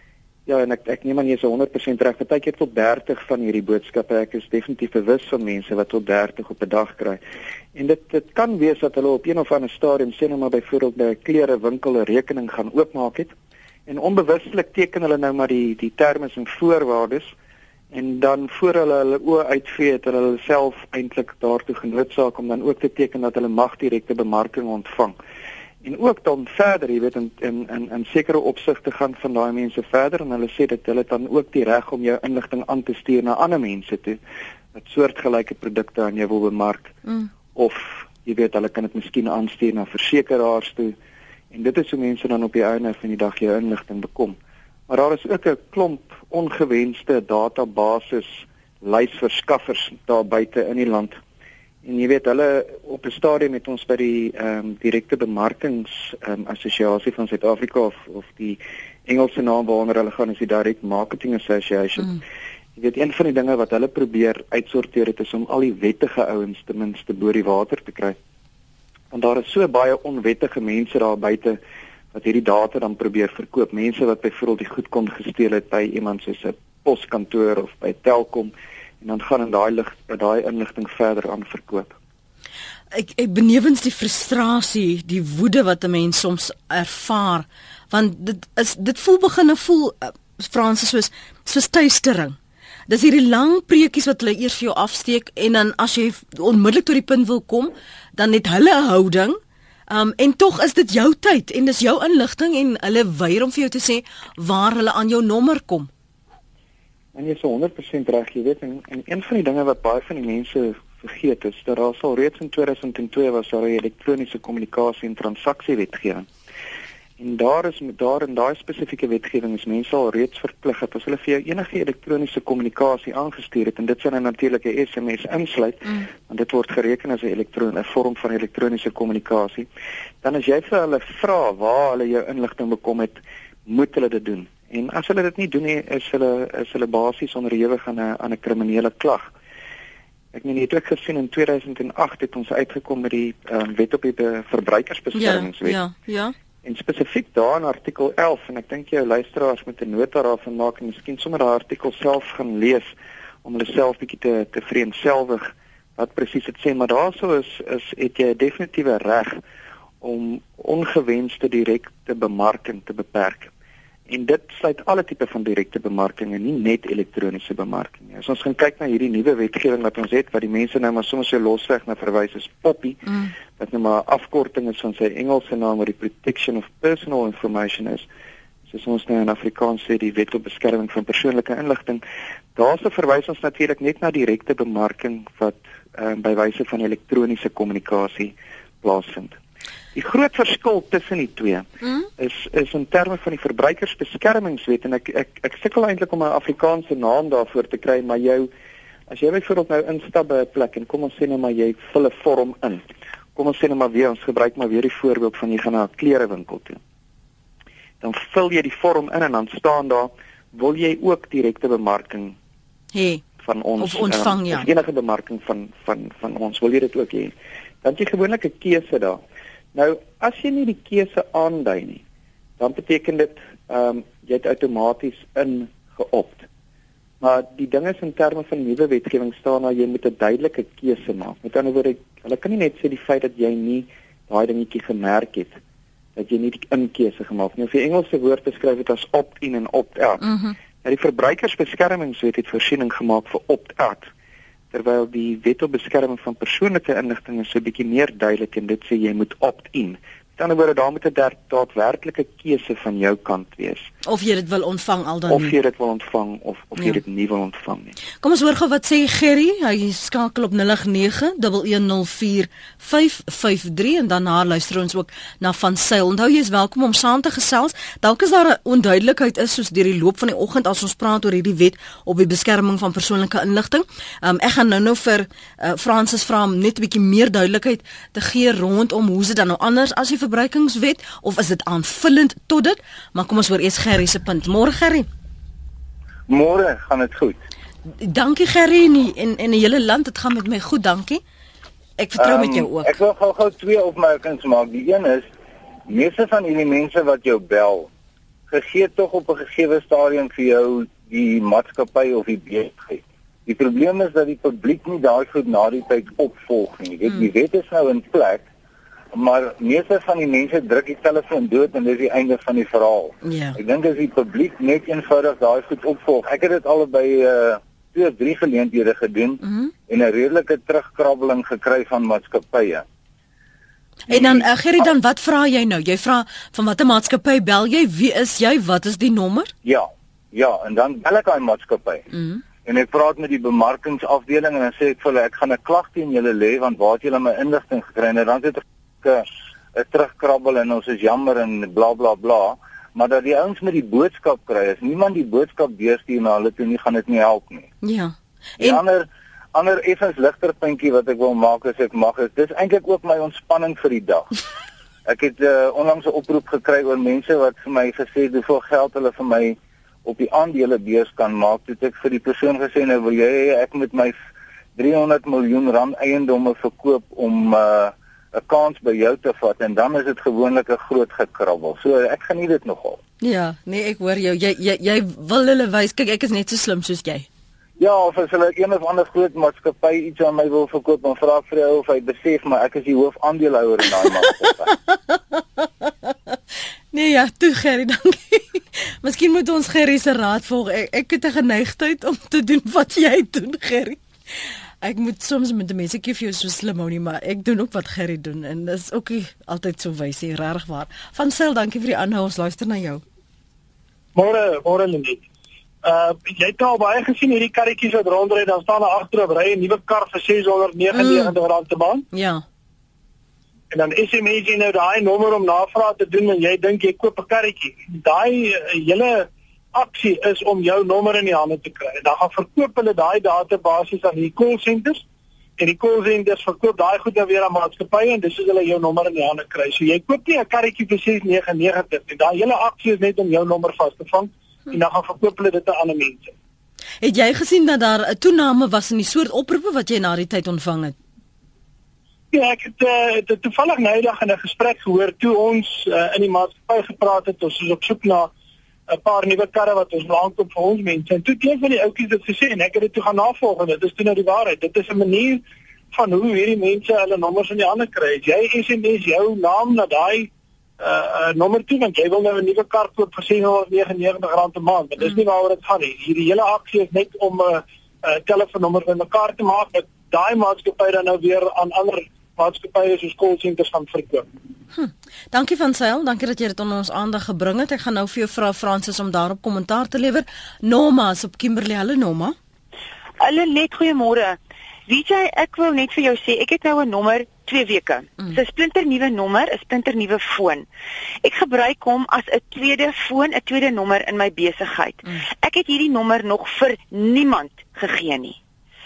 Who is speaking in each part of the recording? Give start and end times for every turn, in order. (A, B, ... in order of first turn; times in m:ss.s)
0:00.5-0:07.2 A
0:07.8-0:13.3 A
0:13.9-0:17.3 A
0:17.9-0:25.2 A
0:25.8-0:34.2 A
0:34.7-0:36.9 A
0:37.5-0:41.0 A
0:41.5-0:44.4 A
0:44.9-0:51.2 A
0:51.8-1:02.2 A
1:02.8-1:08.2 A
1:09.1-1:11.6 A
1:12.1-1:22.0 A
1:22.9-1:32.4 B
1:32.9-1:39.4 B
1:39.9-1:45.9 B
1:47.2-1:56.3 A
1:57.2-2:09.7 A
2:10.2-2:19.3 A
2:20.3-2:25.8 A
2:25.1-2:26.3 B
2:26.6-2:32.9 A
2:33.4-2:39.4 A
2:40.0-2:43.5 A
2:44.1-2:53.0 A
2:53.0-2:53.3 B
2:53.6-2:58.1 A
2:58.7-3:02.0 A
3:02.6-3:09.4 A
3:09.9-3:11.7 A
3:11.8-3:12.1 B
3:12.2-3:18.5 A
3:19.1-3:22.8 A
3:23.4-3:26.8 A
3:28.0-3:32.4 A
3:32.9-3:33.2 B
3:33.4-3:39.2 A
3:33.8-3:34.7 B
3:39.7-3:42.0 A
3:42.6-3:46.5 A
3:47.2-3:55.6 A
3:56.2-4:00.2 A
4:00.2-4:00.6 B
4:00.8-4:04.1 A
4:04.7-4:13.9 A
4:14.0-4:15.5 B
4:15.3-4:18.0 A
4:18.2-4:45.1 B
4:46.3-4:47.4 C
4:48.0-4:51.2 B
4:52.0-4:52.9 B
4:52.2-4:55.3 C
4:55.9-4:57.9 C
4:58.5-5:08.5 C
5:09.1-5:22.8 C
5:13.2-5:13.6 B
5:19.4-5:19.7 B
5:24.1-5:29.5 B
5:24.1-5:24.4 C
5:29.6-5:32.0 C
5:32.1-5:32.4 B
5:32.6-5:47.7 C
5:47.8-5:48.8 B
5:48.6-5:54.3 C
5:55.1-6:04.2 C
6:04.8-6:13.0 C
6:13.2-6:17.3 B
6:17.8-6:24.7 C
6:24.7-6:26.3 B
6:26.9-6:34.0 B
6:34.8-6:43.0 B
6:44.2-6:45.2 D
6:45.8-6:52.0 D
6:50.9-6:51.3 B
6:52.1-6:52.4 B
6:53.7-7:05.0 D
7:05.6-7:16.3 D
7:17.0-7:21.0 B
7:22.3-7:28.3 D
7:28.9-7:40.3 D
7:40.8-7:54.3 D
7:54.7-8:02.4 B
8:03.2-8:10.7 E
8:11.2-8:18.4 E